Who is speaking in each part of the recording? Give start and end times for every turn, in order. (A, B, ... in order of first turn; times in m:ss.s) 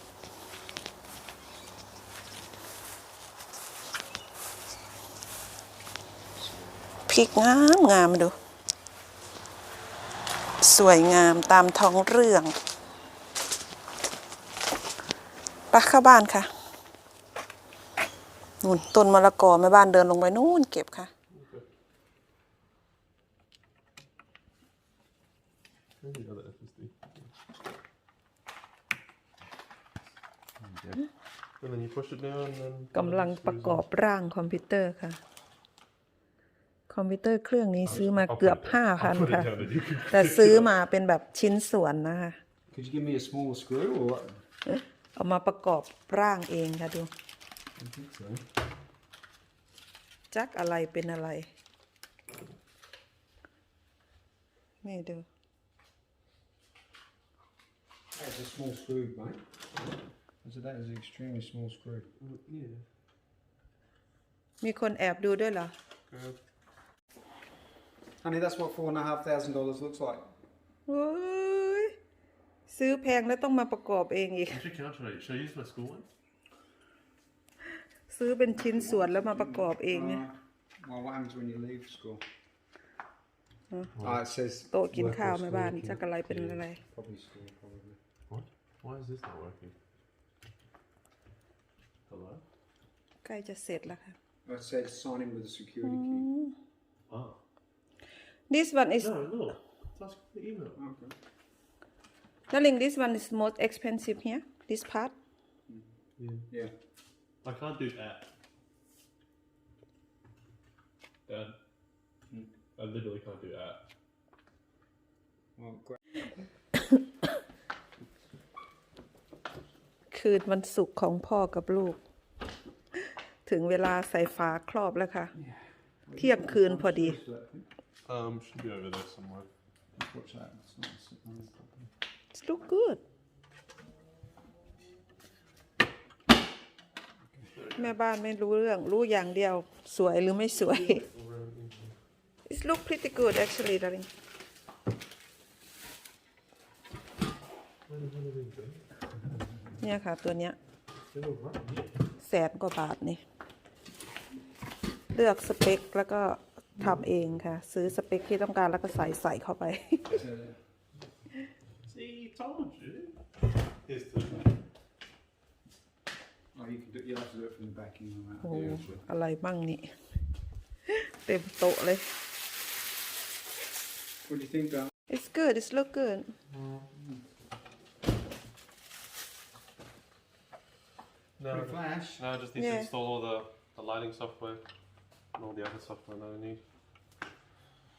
0:07.1-0:08.3 A
0:10.6-0:12.5 A
0:15.7-0:16.5 A
0:18.6-0:21.1 A
0:21.3-0:21.6 B
0:26.0-0:27.3 B
0:30.6-0:31.0 C
0:31.6-0:33.8 B
0:32.9-0:35.2 A
0:36.9-0:39.5 A
0:37.9-0:40.7 B
0:40.1-0:42.4 A
0:42.7-0:44.4 C
0:45.1-0:47.1 A
0:47.8-0:48.4 C
0:50.3-0:51.5 A
0:54.8-0:55.2 A
0:58.1-0:59.4 C
1:00.4-1:02.1 C
1:02.2-1:02.8 B
1:04.6-1:05.7 A
1:06.1-1:06.4 B
1:08.2-1:10.2 C
1:10.9-1:11.9 A
1:12.7-1:14.6 A
1:14.5-1:16.1 B
1:18.1-1:20.2 A
1:18.6-1:22.2 C
1:24.0-1:24.2 B
1:24.0-1:26.2 C
1:24.7-1:26.8 A
1:26.3-1:26.6 B
1:26.8-1:28.0 C
1:28.3-1:29.7 B
1:32.1-1:32.4 B
1:33.2-1:34.1 A
1:34.4-1:36.3 C
1:35.9-1:36.5 A
1:37.1-1:37.4 B
1:38.5-1:39.1 A
1:39.0-1:40.8 B
1:40.7-1:41.1 C
1:42.5-1:45.1 A
1:45.7-1:45.9 C
1:46.2-1:46.5 B
1:46.5-1:46.7 C
1:47.4-1:48.3 B
1:51.3-1:51.6 B
1:52.8-1:53.8 B
1:55.6-1:56.0 C
2:00.1-2:02.0 A
2:03.4-2:05.3 A
2:05.4-2:07.7 C
2:06.2-2:07.2 A
2:08.0-2:09.5 B
2:10.0-2:11.9 C
2:12.3-2:13.0 A
2:17.5-2:17.8 B
2:17.8-2:21.0 A
2:20.7-2:22.0 B
2:22.5-2:24.1 A
2:27.9-2:28.8 B
2:29.8-2:30.6 A
2:31.1-2:31.9 B
2:32.2-2:33.2 A
2:35.1-2:40.1 A
2:36.8-2:37.1 B
2:40.1-2:40.6 C
2:41.8-2:43.2 B
2:43.8-2:44.5 B
2:46.5-2:49.0 C
2:48.4-2:49.9 A
2:48.4-2:49.0 B
2:50.9-2:52.0 A
2:54.2-2:54.9 C
2:55.1-2:56.3 A
2:56.7-2:57.2 C
3:01.4-3:04.7 B
3:01.5-3:02.2 C
3:02.6-3:02.9 A
3:05.3-3:06.6 B